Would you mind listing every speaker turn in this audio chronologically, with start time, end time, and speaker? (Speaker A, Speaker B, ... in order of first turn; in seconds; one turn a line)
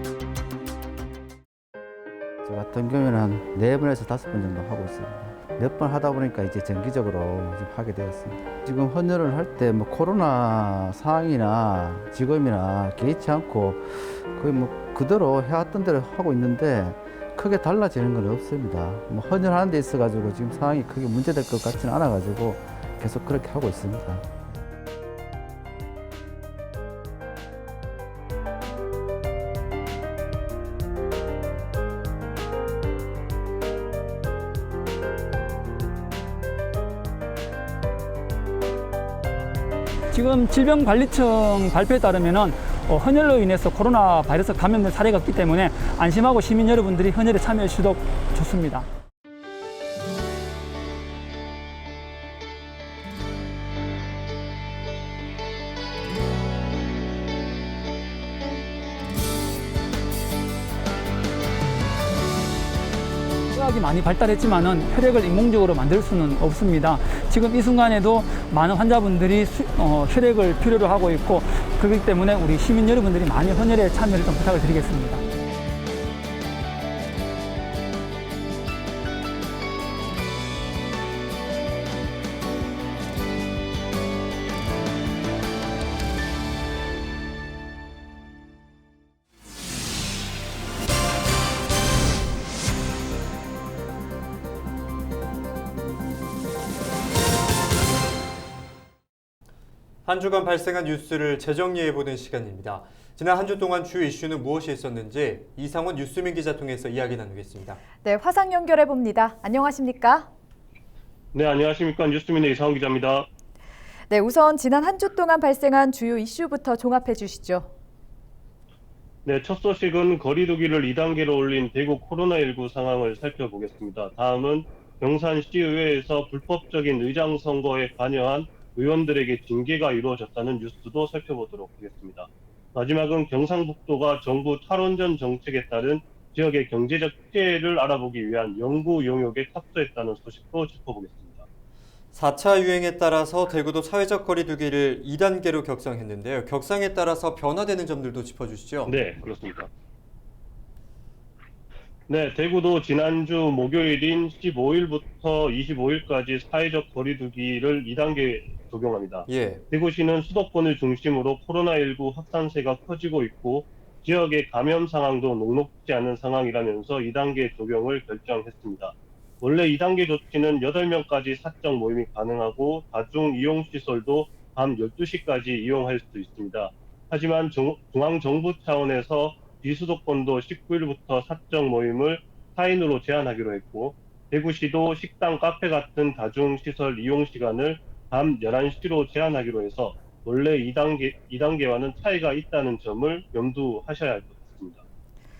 Speaker A: 2.4-24.2
Speaker B: 40.1-48.9
Speaker B: 63.5-75.2
Speaker C: 100.0-107.8
Speaker D: 108.0-110.3
Speaker E: 111.3-113.3
Speaker D: 114.1-117.7
Speaker E: 119.2-141.4
Speaker C: 142.1-149.0
Speaker E: 148.9-149.7
Speaker E: 152.1-194.8
Speaker C: 159.3-159.6